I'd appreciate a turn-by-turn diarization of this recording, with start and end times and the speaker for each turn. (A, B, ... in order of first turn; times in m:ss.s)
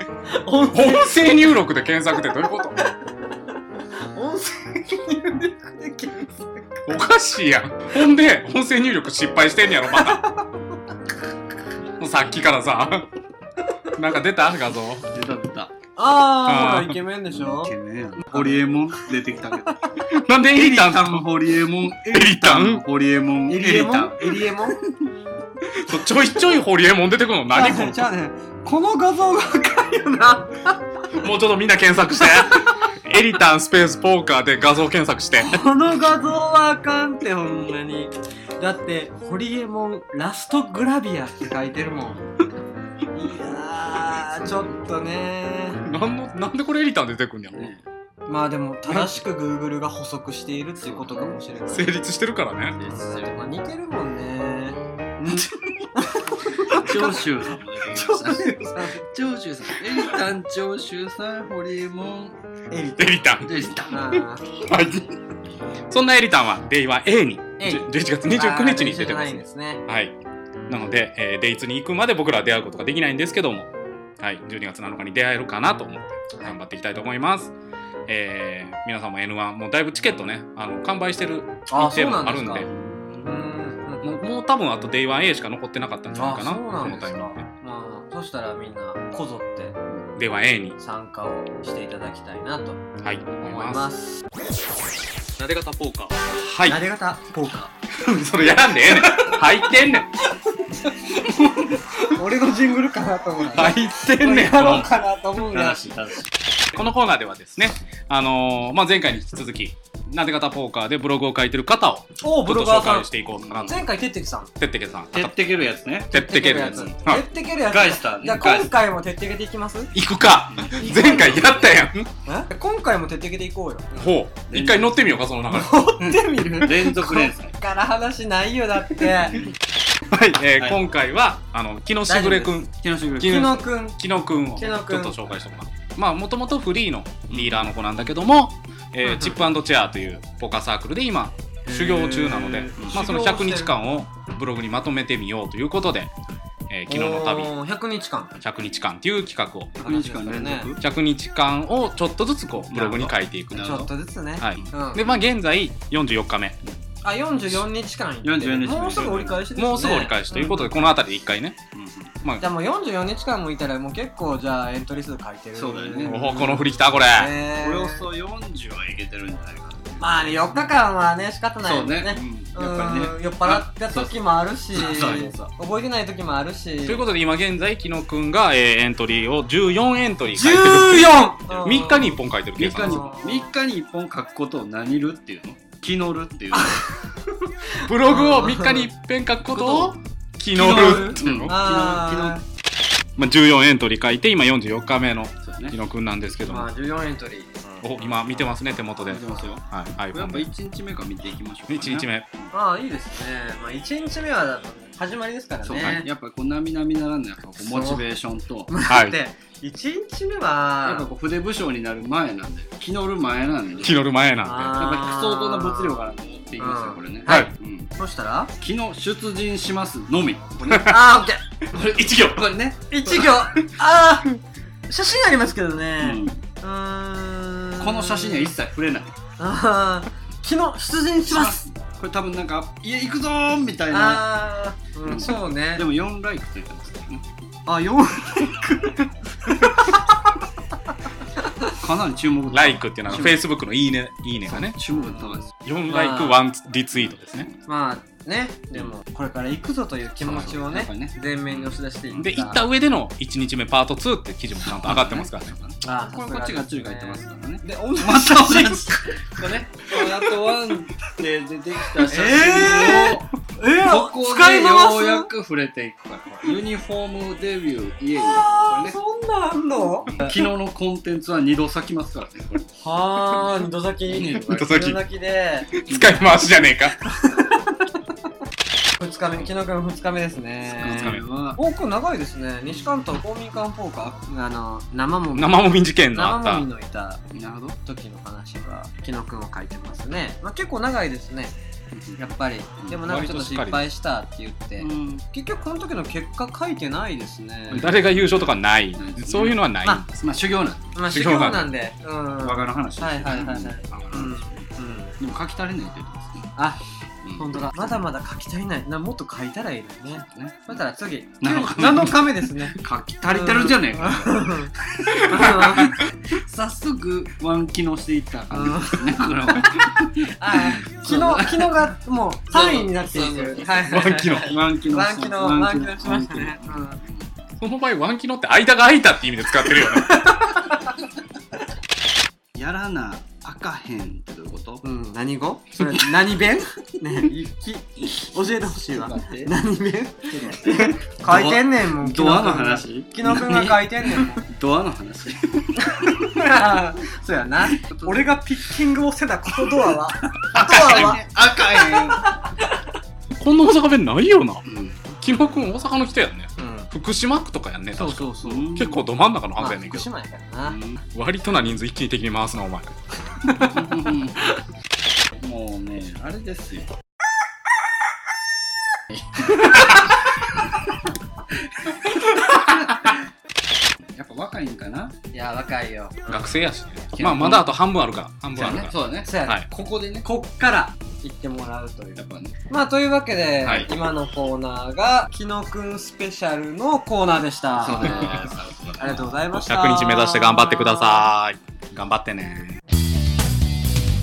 0:00.3-0:01.5 A
0:00.7-0:02.8 B
0:04.1-0:06.8 A
0:06.8-0:10.2 B
0:09.9-0:10.6 A
0:12.0-0:13.0 B
0:14.0-0:15.1 B
0:15.1-0:15.7 C
0:16.0-0:19.1 A
0:16.4-0:17.0 B
0:17.3-0:19.8 C
0:20.0-0:21.3 B
0:20.5-0:25.1 C
0:22.0-0:22.8 B
0:23.4-0:24.8 A
0:25.7-0:28.0 B
0:27.5-0:30.8 A
0:31.2-0:35.5 B
0:32.3-0:32.7 A
0:35.4-0:42.2 A
0:43.1-0:45.8 A
0:45.8-0:47.7 B
0:47.5-0:47.8 C
0:48.2-0:51.9 A
0:48.9-0:49.2 B
0:50.8-0:51.4 C
0:51.7-0:52.8 B
0:52.7-0:53.5 C
0:52.8-0:57.2 A
0:56.7-1:02.4 C
0:57.9-0:59.0 A
1:02.7-1:03.3 A
1:03.0-1:03.6 B
1:03.4-1:04.1 C
1:03.9-1:04.5 A
1:04.5-1:05.1 B
1:05.9-1:10.1 B
1:07.6-1:09.8 A
1:10.7-1:17.5 B
1:18.1-1:22.7 B
1:21.7-1:22.7 A
1:22.6-1:23.4 C
1:23.2-1:24.2 A
1:24.0-1:27.4 B
1:26.1-1:29.8 A
1:30.2-1:30.8 B
1:30.8-1:32.8 A
1:33.0-1:33.9 B
1:33.4-1:34.2 A
1:35.4-1:36.8 B
1:36.6-1:37.7 A
1:38.0-1:40.1 B
1:38.9-1:39.4 A
1:42.1-1:46.0 A
1:43.5-1:44.9 B
1:45.5-1:46.3 C
1:46.7-1:53.8 B
1:52.2-1:53.1 A
1:53.4-1:53.7 C
1:53.6-1:54.5 A
1:54.6-1:55.4 B
1:55.1-1:56.1 C
1:56.1-1:57.2 B
1:56.1-1:59.9 A
1:57.7-1:58.7 C
1:59.9-2:02.1 B
2:00.5-2:00.9 C
2:00.7-2:01.7 A
2:02.2-2:04.2 A
2:04.0-2:05.8 B
2:04.5-2:05.0 C
2:05.5-2:09.4 A
2:06.0-2:07.6 C
2:09.1-2:09.6 C
2:10.1-2:26.1 B
2:12.1-2:12.6 A
2:12.8-2:13.6 C
2:13.2-2:14.0 A
2:14.6-2:15.4 A
2:17.3-2:17.7 C
2:19.0-2:19.4 A
2:21.6-2:23.7 A
2:26.7-2:27.5 B
2:26.9-2:28.3 A
2:28.4-2:29.8 B
2:29.8-2:30.8 C
2:29.8-2:30.8 A
2:30.8-2:36.6 B
2:32.7-2:33.9 C
2:33.5-2:35.0 A
2:37.0-2:40.9 A
2:38.2-2:39.4 C
2:39.5-2:41.6 B
2:40.3-2:40.7 C
2:41.7-2:42.2 C
2:42.4-2:48.1 A
2:45.5-2:46.5 C
2:46.0-2:47.3 B
2:47.6-2:50.4 C
2:50.0-2:57.0 A
2:51.6-2:55.5 C
2:56.8-3:03.0 B
3:00.4-3:02.2 A
3:02.6-3:06.8 C
3:02.8-3:03.5 A
3:06.5-3:08.9 A
3:07.9-3:11.6 B
3:09.4-3:10.0 C
3:10.5-3:12.4 C
3:10.5-3:12.4 A
3:13.2-3:16.7 B
3:15.4-3:15.8 C
3:16.4-3:17.8 A
3:17.8-3:20.5 B
3:19.0-3:22.5 C
3:21.7-3:22.3 B
3:22.5-3:26.0 A
3:25.6-3:28.7 C
3:27.6-3:28.0 A
3:28.7-3:31.1 A
3:28.9-3:29.2 B
3:30.8-3:34.0 C
3:33.8-3:34.8 B
3:34.4-3:36.0 A
3:34.8-3:37.9 C
3:36.6-3:38.5 A
3:37.2-3:37.5 B
3:38.6-3:41.0 C
3:40.7-3:41.0 B
3:40.8-3:41.5 A
3:41.7-3:43.2 C
3:42.9-3:44.3 A
3:44.9-3:48.5 A
3:46.0-3:46.4 C
3:47.8-3:49.2 C
3:49.4-3:51.6 A
3:51.3-3:54.2 C
3:53.9-3:55.8 A
3:55.0-3:57.2 C
3:57.6-4:00.0 A
4:01.8-4:03.4 C
4:02.5-4:04.7 B
4:04.4-4:05.5 C
4:05.0-4:06.4 A
4:05.6-4:07.5 B
4:06.9-4:07.6 C
4:07.6-4:12.6 A
4:10.2-4:12.3 C
4:12.2-4:15.5 B
4:14.6-4:29.0 C
4:15.8-4:20.5 A
4:22.0-4:25.3 A
4:28.2-4:30.4 A
4:30.2-4:32.6 C
4:32.8-4:35.7 A
4:34.1-4:34.5 C
4:34.5-4:35.0 B
4:35.7-4:37.0 B
4:35.9-4:36.2 C
4:37.0-4:37.8 A
4:39.0-4:47.2 A
4:40.6-4:41.6 C
4:40.8-4:41.3 B
4:45.3-4:46.7 B
4:47.3-4:47.8 C
4:47.8-4:51.5 A
4:51.9-4:52.2 C
4:52.2-4:57.9 A
4:52.8-4:53.2 C
4:53.0-4:53.8 B
4:54.8-4:55.2 C
4:57.7-4:59.6 C
4:57.7-5:00.3 B
5:00.2-5:00.9 C
5:00.9-5:05.1 A
5:01.1-5:01.7 B
5:02.4-5:04.7 C
5:05.2-5:06.5 C
5:06.6-5:06.8 A
5:07.2-5:08.0 C
5:07.4-5:16.0 A
5:10.1-5:10.8 C
5:11.4-5:21.9 C
5:15.4-5:15.9 B
5:18.5-5:19.7 A
5:20.3-5:27.0 A
5:22.5-5:27.3 C
5:23.9-5:24.6 B
5:27.6-5:30.4 B
5:29.7-5:31.0 A
5:32.5-5:34.8 C
5:34.8-5:44.4 A
5:38.7-5:39.6 C
5:40.3-5:46.1 C
5:45.8-5:52.9 A
5:47.7-5:48.2 C
5:50.4-5:52.2 C
5:53.4-5:54.6 B
5:54.6-5:55.1 C
5:55.2-6:00.1 B
5:56.6-5:56.9 A
5:57.9-5:58.7 A
5:58.4-5:59.1 C
5:59.6-6:00.8 A
6:00.6-6:01.0 C
6:01.1-6:03.8 B
6:03.7-6:04.5 C
6:05.4-6:06.9 C
6:09.1-6:10.1 C
6:11.8-6:13.2 C
6:14.1-6:15.1 C
6:15.3-6:16.5 A
6:16.3-6:19.6 B
6:17.1-6:17.7 C
6:18.5-6:20.3 C
6:19.2-6:19.7 A
6:20.2-6:28.4 A
6:22.2-6:22.5 C
6:27.7-6:29.6 C
6:28.0-6:28.5 B
6:29.0-6:31.3 A
6:29.6-6:32.8 B